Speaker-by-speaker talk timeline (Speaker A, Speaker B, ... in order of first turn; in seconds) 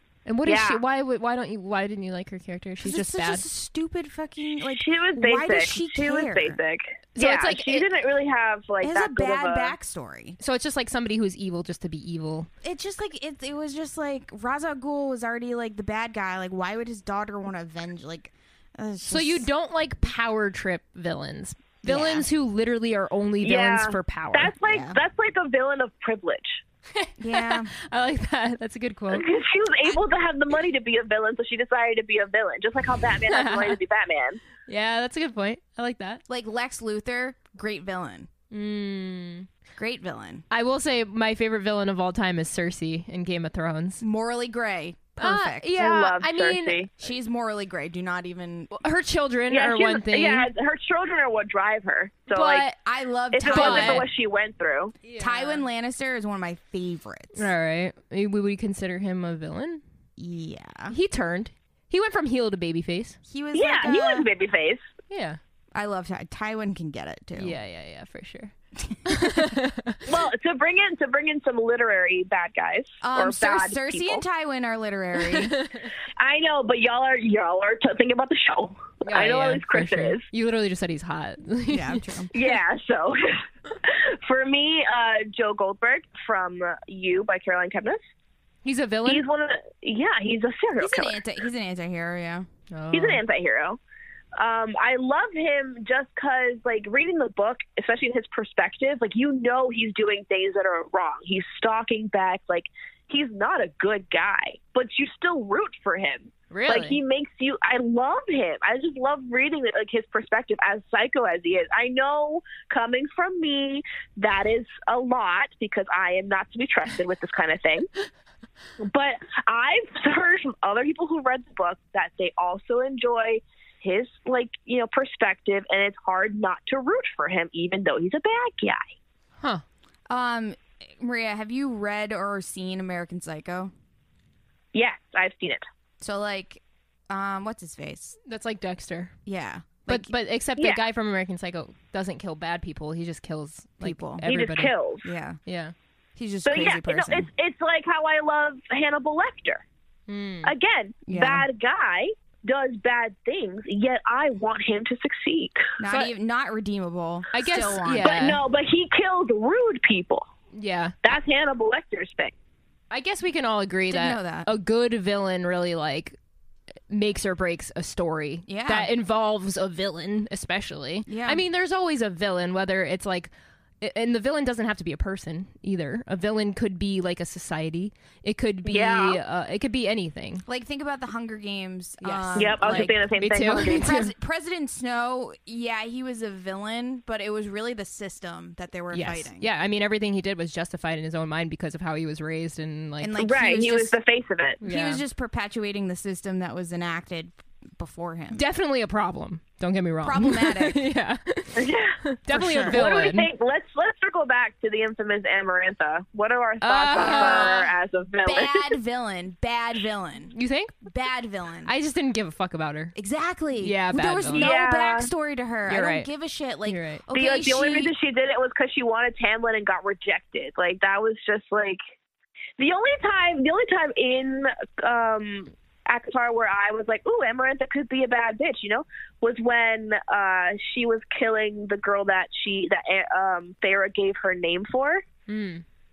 Speaker A: 0.3-3.5, 7.2-7.9, 10.4-12.5, 19.1-24.6, 27.0-29.3, 33.3-33.8, 34.7-36.2, 38.5-39.5, 40.5-44.0, 45.2-46.9, 48.7-50.5, 52.3-52.8, 53.5-54.1, 55.0-55.7, 57.4-59.8, 60.9-63.2, 65.1-65.4, 67.4-68.5, 69.1-70.0, 75.3-75.8, 79.0-82.1, 88.6-89.2, 92.7-93.2, 106.5-107.0, 138.3-139.1, 139.9-144.7, 145.4-145.7, 150.1-150.5, 157.3-158.4, 160.5-161.2, 162.9-166.2, 166.9-180.4, 182.0-184.1, 188.9-193.3, 194.6-195.0, 198.3-203.3, 206.6-207.7, 210.3-210.8, 211.7-212.9, 213.6-214.5, 215.7-216.1, 216.7-217.0, 235.3-235.6
Speaker B: 0.5-0.8, 4.7-9.8, 23.4-26.6, 29.1-34.4, 45.8-46.9, 49.5-52.7, 53.3-55.0, 63.5-64.8, 70.1-74.2, 76.2-80.2, 82.3-83.2, 83.8-88.0, 89.1-91.2, 92.9-93.8, 94.4-117.9, 118.8-128.8, 134.7-135.6, 140.6-140.8, 144.3-145.1, 146.4-149.6, 150.4-156.1, 158.0-160.3, 161.0-162.3, 178.7-179.2, 182.4-183.9, 193.2-194.6, 201.6-202.0, 202.7-208.8, 214.4-215.1, 217.1-221.8, 222.6-235.0
Speaker C: 2.8-6.6, 8.8-10.4, 12.6-19.5, 21.8-22.3, 24.7-25.0, 27.2-27.7, 36.3-38.3, 39.8-40.4, 44.0-45.7, 47.0-48.7, 52.9-54.1, 55.2-57.5, 60.2-61.0, 63.3-64.3, 65.8-67.6, 73.0-75.6, 81.7-82.3, 90.8-92.5, 130.1-133.7, 136.0-138.2, 139.3-140.1, 143.8-144.2, 145.0-145.4, 146.2-147.3, 151.1-151.5, 155.8-158.2, 163.9-164.5, 168.5-168.9, 171.1-171.4, 180.5-183.0, 183.7-189.5, 193.0-194.0, 194.6-198.4, 200.0-200.8, 202.3-202.8, 206.9-207.7, 208.2-210.3, 210.8-211.7, 213.0-217.9